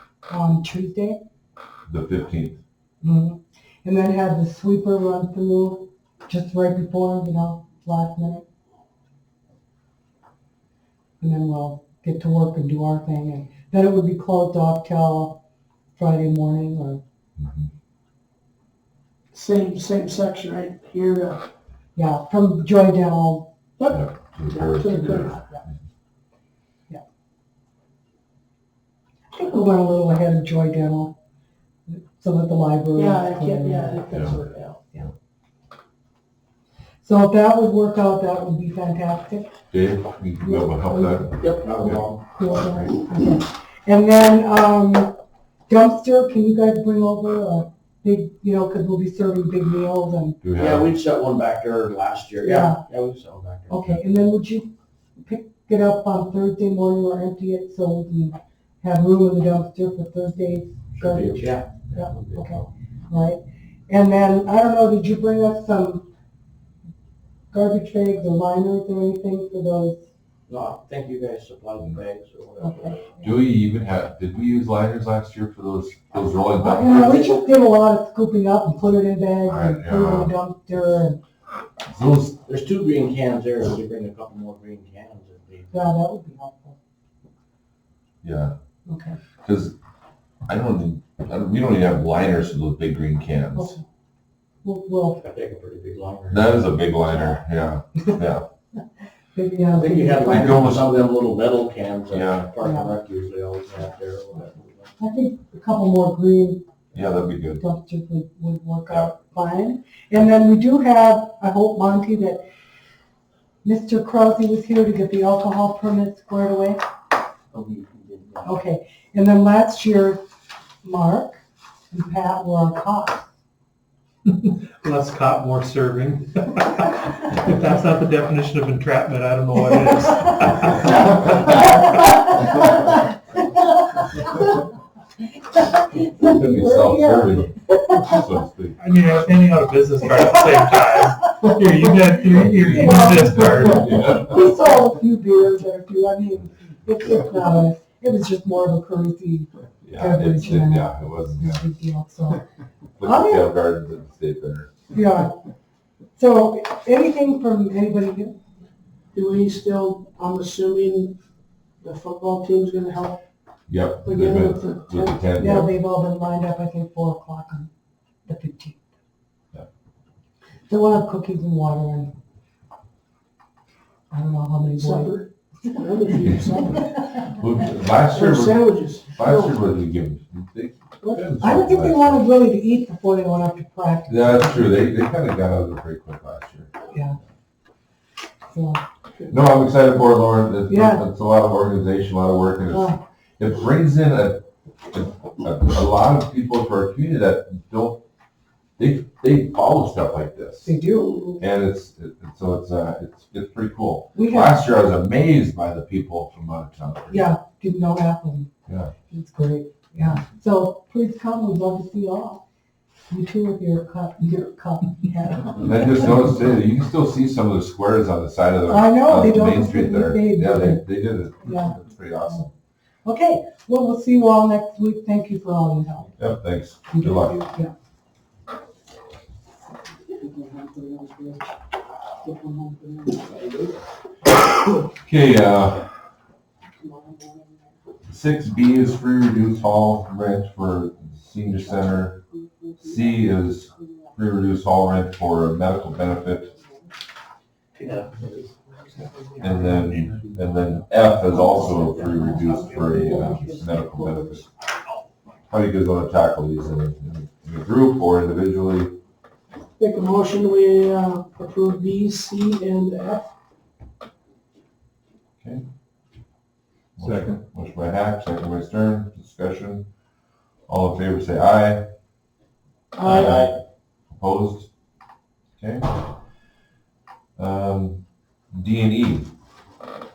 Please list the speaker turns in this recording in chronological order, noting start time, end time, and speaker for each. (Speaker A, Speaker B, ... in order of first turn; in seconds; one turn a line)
Speaker A: 0.3-1.2
Speaker B: 1.9-2.6
Speaker A: 3.0-8.4
Speaker A: 11.2-15.4
Speaker A: 15.9-17.0
Speaker B: 17.4-17.7
Speaker C: 19.3-21.4
Speaker A: 21.9-23.5
Speaker C: 23.8-25.4
Speaker B: 23.9-25.4
Speaker A: 24.8-25.6
Speaker A: 29.3-31.1
Speaker A: 31.9-34.1
Speaker C: 32.9-34.8
Speaker B: 34.1-34.4
Speaker A: 37.0-39.5
Speaker B: 39.7-42.0
Speaker A: 40.4-41.5
Speaker D: 41.4-42.3
Speaker A: 42.3-45.1
Speaker A: 45.7-50.4
Speaker B: 50.4-50.9
Speaker D: 50.5-53.8
Speaker A: 52.4-52.8
Speaker A: 53.7-54.7
Speaker A: 55.2-66.1
Speaker D: 61.0-62.7
Speaker A: 67.5-70.0
Speaker D: 70.5-73.2
Speaker A: 72.6-73.2
Speaker B: 73.2-77.0
Speaker A: 76.6-81.2
Speaker D: 76.8-77.3
Speaker B: 79.4-80.3
Speaker B: 81.9-82.4
Speaker D: 82.5-85.7
Speaker A: 85.7-86.8
Speaker B: 88.2-88.5
Speaker A: 88.8-89.2
Speaker B: 89.4-89.7
Speaker B: 90.5-93.7
Speaker A: 93.5-93.8
Speaker A: 94.6-95.2
Speaker D: 95.2-96.6
Speaker B: 96.3-98.4
Speaker A: 99.3-100.6
Speaker D: 99.7-104.9
Speaker B: 100.2-100.9
Speaker B: 102.1-102.5
Speaker A: 102.6-102.9
Speaker A: 105.0-106.7
Speaker B: 106.9-107.6
Speaker A: 107.6-112.4
Speaker A: 113.6-116.8
Speaker D: 117.5-118.5
Speaker A: 118.4-120.2
Speaker A: 120.8-123.2
Speaker E: 124.3-131.9
Speaker A: 129.9-134.6
Speaker A: 135.4-138.2
Speaker B: 136.2-138.8
Speaker E: 138.8-144.1
Speaker A: 141.4-141.7
Speaker B: 142.3-144.4
Speaker A: 142.6-152.4
Speaker B: 149.8-151.6
Speaker B: 153.0-154.7
Speaker A: 153.0-153.5
Speaker A: 154.9-155.3
Speaker A: 156.2-158.4
Speaker C: 159.1-161.2
Speaker C: 161.8-163.2
Speaker B: 163.7-165.7
Speaker C: 164.0-165.2
Speaker A: 165.4-167.7
Speaker A: 168.2-168.8
Speaker A: 170.7-172.1
Speaker A: 174.1-175.2
Speaker C: 174.7-177.0
Speaker B: 177.2-182.2
Speaker C: 178.1-179.6
Speaker A: 181.4-184.7
Speaker B: 184.1-186.7
Speaker A: 186.9-187.2
Speaker A: 188.5-188.8
Speaker B: 189.3-198.0
Speaker A: 190.7-191.0
Speaker A: 192.7-193.0
Speaker B: 198.8-200.7
Speaker A: 200.6-201.4
Speaker C: 201.0-201.3
Speaker B: 201.4-207.2
Speaker A: 204.1-204.7
Speaker A: 207.1-208.5
Speaker B: 208.7-208.9
Speaker A: 209.1-212.4
Speaker A: 213.1-216.1
Speaker B: 215.6-222.5
Speaker A: 218.7-220.8
Speaker A: 221.4-221.7
Speaker A: 223.0-226.1
Speaker B: 226.2-227.4
Speaker A: 226.9-227.7
Speaker A: 230.1-231.6
Speaker A: 232.2-233.7
Speaker B: 235.0-235.9
Speaker A: 236.8-237.5
Speaker B: 238.1-242.2
Speaker A: 242.6-242.9
Speaker B: 242.8-246.5
Speaker D: 247.7-248.5
Speaker B: 249.4-254.4
Speaker D: 251.4-253.6
Speaker A: 252.2-254.4
Speaker B: 255.5-258.9
Speaker C: 259.8-263.3
Speaker B: 267.0-269.9
Speaker B: 270.7-271.9
Speaker D: 273.0-273.6
Speaker B: 273.0-273.5
Speaker B: 274.2-274.7
Speaker B: 275.6-276.1
Speaker B: 277.4-279.3